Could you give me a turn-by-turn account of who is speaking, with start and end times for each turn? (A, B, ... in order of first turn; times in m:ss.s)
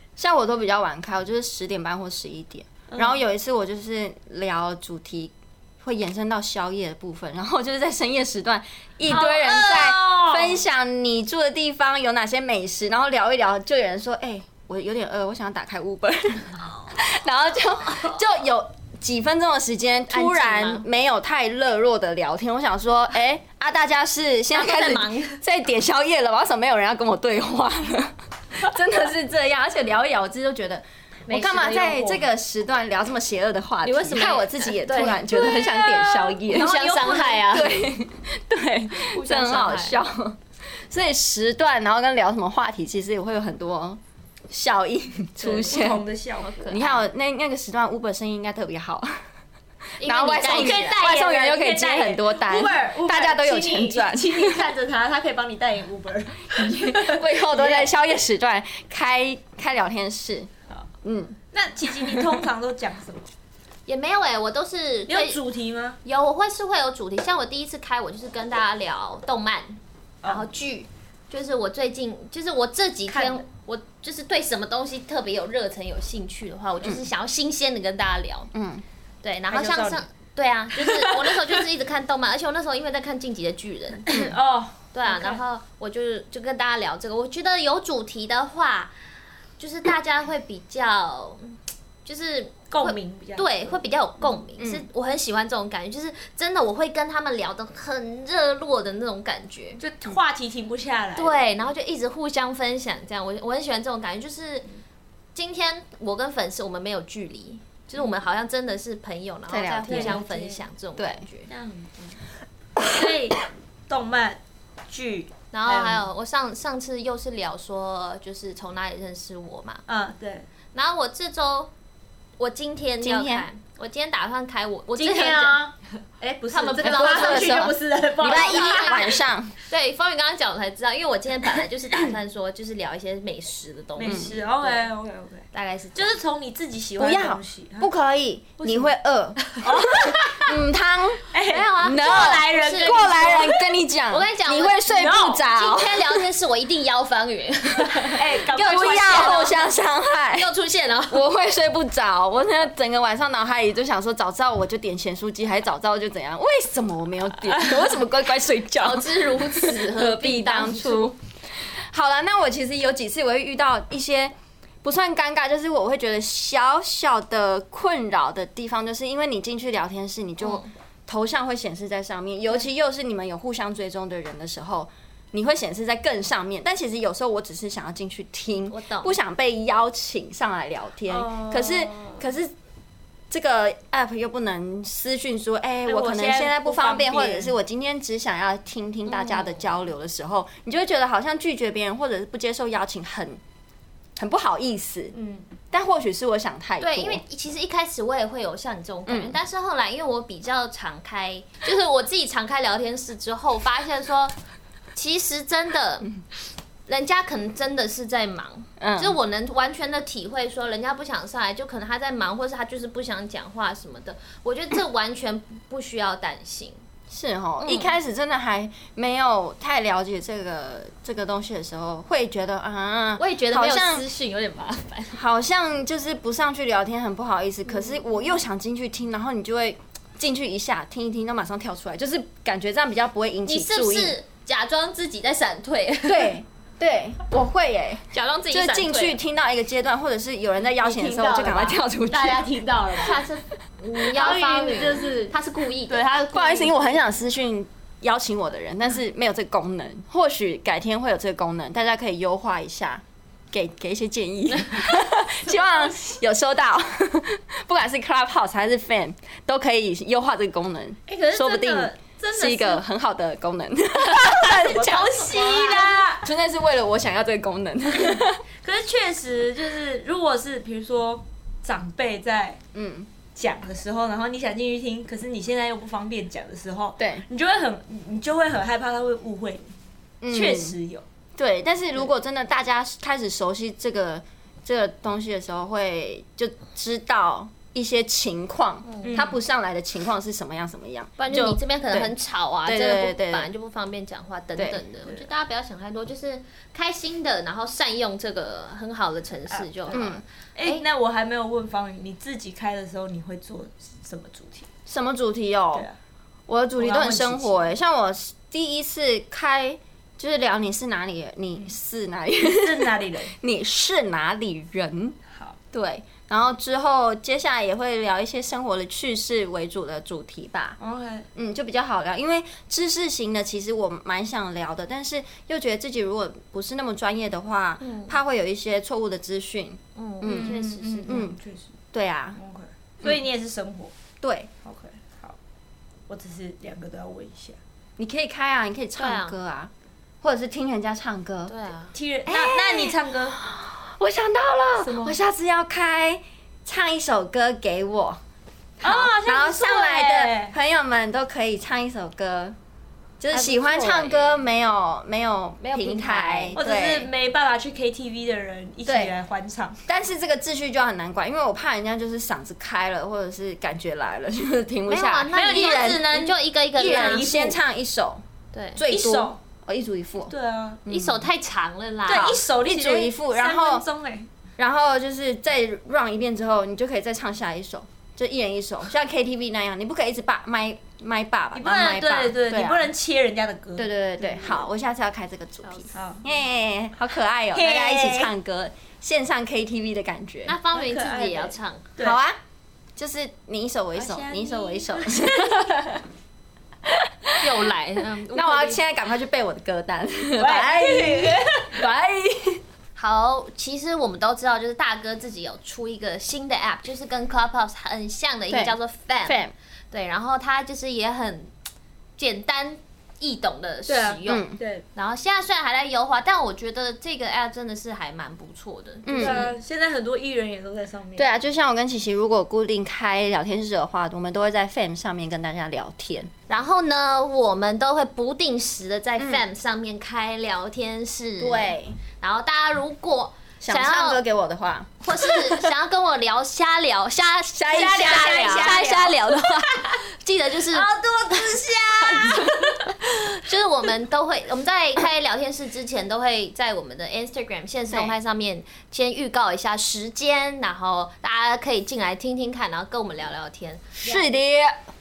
0:00.2-0:46.0 A
0:02.9-0:03.2 B
0:09.1-0:10.6 B
0:20.1-0:20.8 C
0:24.5-0:25.4 C
0:31.3-0:32.3 C
0:33.8-0:35.3 C
0:35.3-0:37.6 B
0:36.4-0:37.8 C
0:39.1-0:40.0 C
0:45.4-0:46.8 B
0:46.4-0:47.0 C
0:46.7-0:49.2 A
0:50.0-0:51.1 C
0:50.0-0:54.7 A
0:50.5-0:57.9 B
0:56.6-1:00.5 A
1:01.0-1:02.4 A
1:01.5-1:03.3 B
1:03.9-1:05.4 C
1:05.1-1:06.0 B
1:06.0-1:18.5 C
1:10.2-1:10.5 B
1:13.1-1:13.4 B
1:18.5-1:18.8 A
1:19.2-1:24.1 C
1:19.5-1:20.0 B
1:20.8-1:21.6 B
1:24.1-1:25.4 B
1:24.1-1:24.4 A
1:24.9-1:28.9 C
1:29.6-1:39.8 C
1:32.7-1:34.4 B
1:34.6-1:34.8 A
1:39.8-1:41.5 B
1:41.2-1:44.7 C
1:45.4-1:51.5 C
1:49.5-1:50.2 A
1:49.9-1:50.6 B
1:51.0-1:51.2 A
1:51.5-1:52.2 B
1:52.8-1:56.0 B
1:55.5-1:59.8 C
1:59.9-2:00.5 B
2:00.7-2:01.7 C
2:02.4-2:05.6 C
2:03.0-2:03.5 A
2:04.9-2:09.1 B
2:06.5-2:14.9 C
2:06.8-2:09.5 A
2:14.0-2:17.9 B
2:15.5-2:16.2 C
2:17.0-2:19.4 A
2:18.6-2:18.9 B
2:19.6-2:20.5 B
2:19.9-2:20.4 C
2:20.0-2:21.2 A
2:21.3-2:23.6 B
2:21.4-2:23.6 C
2:21.8-2:26.2 A
2:24.1-2:29.8 C
2:24.9-2:25.4 B
2:28.0-2:29.6 B
2:28.6-2:30.5 A
2:30.3-2:31.3 C
2:31.1-3:02.5 A
2:38.8-2:41.1 C
2:50.4-2:50.7 C
2:58.7-2:59.1 C
3:01.1-3:02.2 B
3:03.3-3:13.4 A
3:05.9-3:07.5 B
3:09.1-3:09.7 C
3:14.2-3:15.1 A
3:15.1-3:15.4 B
3:15.7-3:17.2 A
3:16.8-3:24.4 C
3:19.1-3:19.4 A
3:25.0-3:26.1 C
3:26.9-3:36.8 C
3:28.8-3:29.2 A
3:37.1-3:44.0 A
3:37.6-3:37.9 C
3:43.2-3:45.2 C
3:45.1-3:54.2 A
3:53.5-3:56.4 C
3:56.1-4:02.7 A
3:58.1-3:59.2 C
4:00.8-4:03.2 B
4:02.9-4:06.7 C
4:04.1-4:05.3 B
4:05.9-4:06.7 B
4:06.3-4:28.4 A
4:14.6-4:15.9 C
4:21.1-4:22.8 B
4:24.0-4:26.3 B
4:25.3-4:25.9 C
4:28.1-4:32.6 B
4:32.7-4:33.1 A
4:33.4-4:39.7 B
4:37.0-4:37.2 A
4:40.2-4:40.8 A
4:40.3-4:41.0 B
4:41.4-4:52.1 A
4:48.9-4:49.2 C
4:49.0-4:49.4 B
4:51.2-5:00.8 C
4:52.7-4:53.5 A
4:54.6-4:54.8 A
4:55.0-4:55.3 B
4:59.5-5:04.7 B
4:59.9-5:00.2 A
5:04.9-5:05.9 A
5:06.5-5:15.2 A
5:06.8-5:07.6 B
5:12.4-5:13.4 B
5:15.3-5:15.6 B
5:15.7-5:20.8 A
5:20.8-5:21.3 B
5:21.4-5:31.4 A
5:27.8-5:28.2 C
5:30.0-5:31.2 C
5:30.2-5:31.7 B
5:31.9-5:32.4 A
5:32.4-5:33.9 B
5:34.2-5:34.5 A
5:34.6-5:35.4 B
5:36.1-5:37.6 B
5:38.0-5:39.7 A
5:39.0-5:39.3 C
5:40.2-5:41.5 A
5:41.5-5:41.9 C
5:41.9-5:43.4 B
5:42.3-5:48.2 A
5:44.8-5:45.2 B
5:48.8-5:50.6 B
5:48.8-5:52.6 A
5:53.2-5:57.1 A
5:53.3-5:54.4 C
5:55.6-5:56.6 C
5:56.6-5:59.8 B
5:58.9-5:59.1 A
5:59.9-6:06.2 A
6:04.9-6:07.5 C
6:05.3-6:07.6 B
6:06.8-6:08.2 A
6:08.5-6:08.8 C
6:08.8-6:10.3 A
6:08.9-6:09.4 B
6:10.3-6:10.8 B
6:10.9-6:11.3 A
6:10.9-6:12.4 C
6:12.1-6:14.3 B
6:12.1-6:13.8 A
6:14.6-6:22.9 A
6:21.6-6:24.6 B
6:23.8-6:30.6 A
6:25.9-6:26.2 B
6:27.5-6:28.3 B
6:30.5-6:31.9 C
6:30.7-6:32.2 B
6:32.0-6:32.4 A
6:33.0-6:36.0 A
6:34.0-6:35.6 B
6:36.8-6:42.6 A
6:37.4-6:38.8 C
6:40.4-6:41.9 B
6:43.0-6:51.5 C
6:48.5-6:49.5 A
6:52.2-6:59.5 C
6:53.9-6:54.8 B
6:54.3-6:54.6 A
6:59.0-6:59.5 A
6:59.1-7:01.3 B
7:01.2-7:06.3 A
7:06.5-7:14.2 C
7:09.2-7:09.4 A
7:11.4-7:12.0 A
7:13.6-7:15.7 A
7:15.0-7:20.9 C
7:17.5-7:19.8 A
7:17.7-7:19.3 B
7:20.8-7:22.5 B
7:22.0-7:22.5 C
7:22.0-7:22.9 A
7:23.0-7:34.0 C
7:27.9-7:28.2 A
7:34.0-7:34.8 A